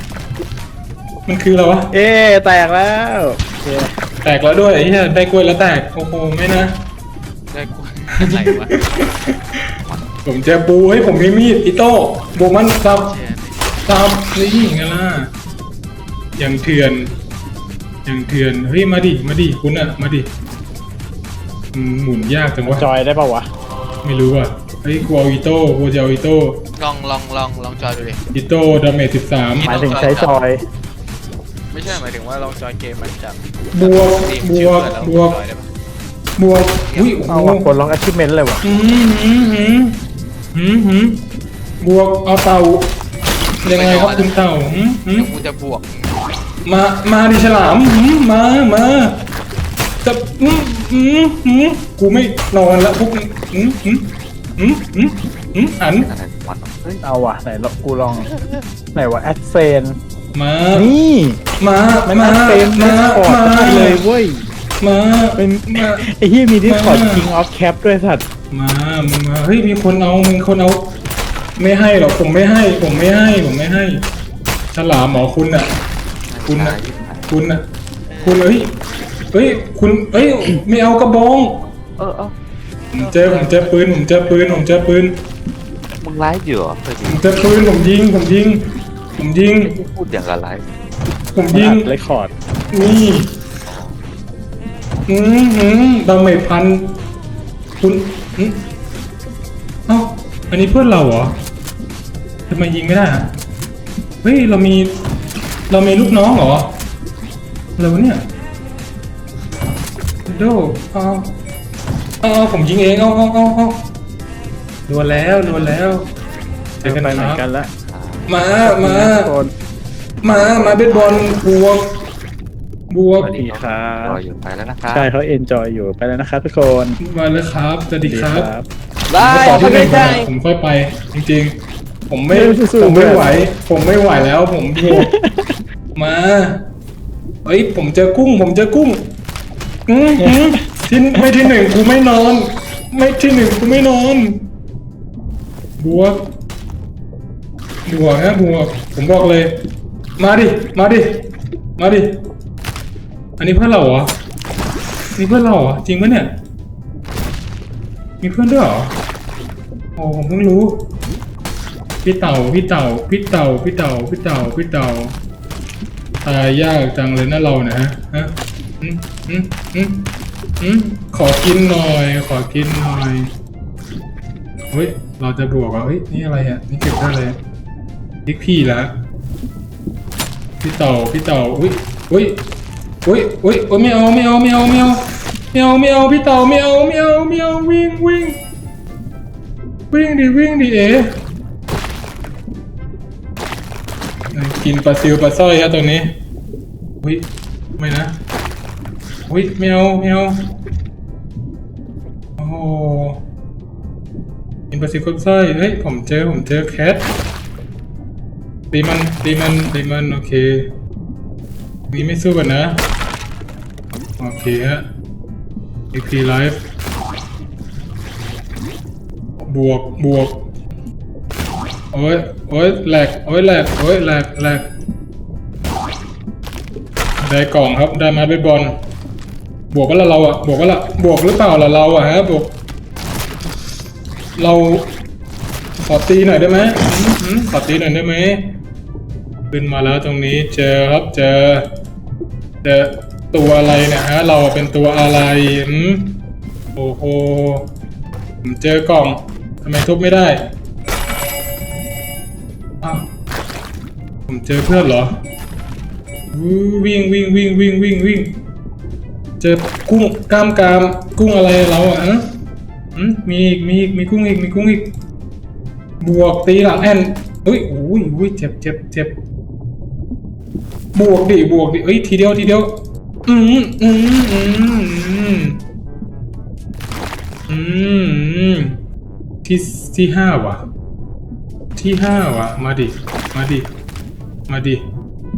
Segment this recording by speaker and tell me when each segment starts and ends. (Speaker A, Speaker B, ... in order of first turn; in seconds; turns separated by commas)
Speaker A: 1.2-1.9, Speaker B: 1.9-3.9, Speaker A: 4.2-6.7, Speaker C: 7.5-8.7, Speaker A: 8.2-9.3, Speaker A: 10.2-13.1, Speaker C: 12.8-13.7, Speaker A: 13.8-15.3, Speaker A: 16.4-17.1, Speaker A: 18.0-20.3, Speaker A: 21.7-22.9, Speaker B: 22.7-23.5, Speaker A: 24.0-26.6, Speaker C: 26.8-28.2, Speaker A: 28.3-29.7, Speaker C: 29.6-30.4, Speaker B: 29.6-30.6, Speaker C: 31.7-35.7, Speaker A: 33.7-35.4, Speaker A: 36.4-37.7, Speaker C: 36.9-37.2, Speaker B: 37.3-38.6, Speaker A: 38.6-40.0, Speaker A: 40.5-41.2, Speaker A: 41.8-42.9, Speaker C: 43.6-44.5, Speaker A: 43.6-45.3, Speaker C: 45.1-46.1, Speaker A: 46.6-49.1, Speaker A: 50.0-56.1, Speaker D: 55.9-57.0, Speaker B: 57.0-58.3, Speaker B: 58.9-60.0, Speaker A: 60.3-60.9, Speaker B: 60.7-61.4, Speaker A: 61.6-64.0, Speaker B: 62.0-64.5, Speaker A: 64.8-66.0, Speaker B: 65.4-68.2, Speaker A: 66.6-67.3, Speaker A: 68.5-70.9, Speaker A: 71.6-74.0, Speaker A: 74.7-75.7, Speaker D: 76.3-77.3, Speaker A: 76.5-77.6, Speaker C: 78.1-78.6, Speaker A: 78.2-78.7, Speaker A: 79.3-81.6, Speaker D: 82.0-82.3, Speaker A: 82.9-85.2, Speaker C: 82.9-84.7, Speaker D: 85.9-87.5, Speaker A: 87.1-89.7, Speaker D: 89.6-90.7, Speaker A: 91.3-91.9, Speaker B: 91.5-92.3, Speaker A: 92.7-93.3, Speaker D: 93.7-94.0, Speaker A: 95.1-97.0, Speaker A: 97.8-98.6, Speaker A: 99.9-101.3, Speaker A: 102.5-103.3, Speaker A: 104.2-105.0, Speaker A: 105.7-106.8, Speaker A: 107.8-108.2, Speaker A: 110.3-111.3, Speaker A: 112.2-113.9, Speaker A: 114.9-116.1, Speaker A: 116.8-117.4, Speaker B: 116.8-117.7, Speaker D: 117.9-118.3, Speaker A: 118.3-119.3, Speaker B: 118.6-119.5, Speaker A: 120.2-121.9, Speaker D: 120.3-121.4, Speaker A: 122.9-123.3, Speaker D: 123.2-125.1, Speaker B: 123.3-124.2, Speaker B: 124.9-127.0, Speaker A: 127.0-128.5, Speaker B: 128.0-128.7, Speaker C: 129.1-130.2, Speaker A: 129.1-131.5, Speaker B: 129.4-130.2, Speaker A: 132.1-135.1, Speaker B: 132.3-133.3, Speaker B: 134.8-135.6, Speaker A: 135.9-136.6, Speaker A: 137.4-139.1, Speaker A: 139.9-144.4, Speaker B: 140.2-140.6, Speaker A: 145.8-146.2, Speaker A: 147.9-149.5, Speaker A: 150.2-152.1, Speaker A: 153.4-154.1, Speaker A: 155.2-156.3, Speaker A: 158.2-159.0, Speaker A: 160.0-160.9, Speaker A: 162.0-165.1, Speaker A: 166.2-173.3, Speaker A: 174.7-177.4, Speaker A: 178.2-178.9, Speaker A: 180.6-182.4, Speaker A: 183.0-188.4, Speaker A: 189.9-191.2, Speaker A: 194.3-196.1, Speaker A: 197.0-198.2, Speaker A: 199.2-200.6, Speaker A: 202.4-203.2, Speaker A: 204.7-207.1, Speaker A: 208.7-210.7, Speaker A: 211.9-212.8, Speaker A: 214.2-214.8, Speaker A: 215.9-216.6, Speaker A: 219.5-220.5, Speaker A: 221.9-224.7, Speaker A: 227.2-228.7, Speaker A: 229.7-232.5, Speaker A: 234.4-234.9, Speaker A: 235.8-238.5, Speaker A: 239.5-241.7, Speaker A: 242.6-246.2, Speaker A: 246.8-247.7, Speaker A: 248.4-250.4, Speaker A: 252.8-253.1, Speaker A: 254.3-255.1, Speaker A: 256.3-258.4, Speaker A: 259.4-262.3, Speaker A: 262.9-264.9, Speaker A: 266.0-269.2, Speaker A: 270.9-275.6, Speaker A: 277.5-278.8, Speaker A: 279.4-280.6, Speaker A: 281.8-283.7, Speaker A: 284.5-284.8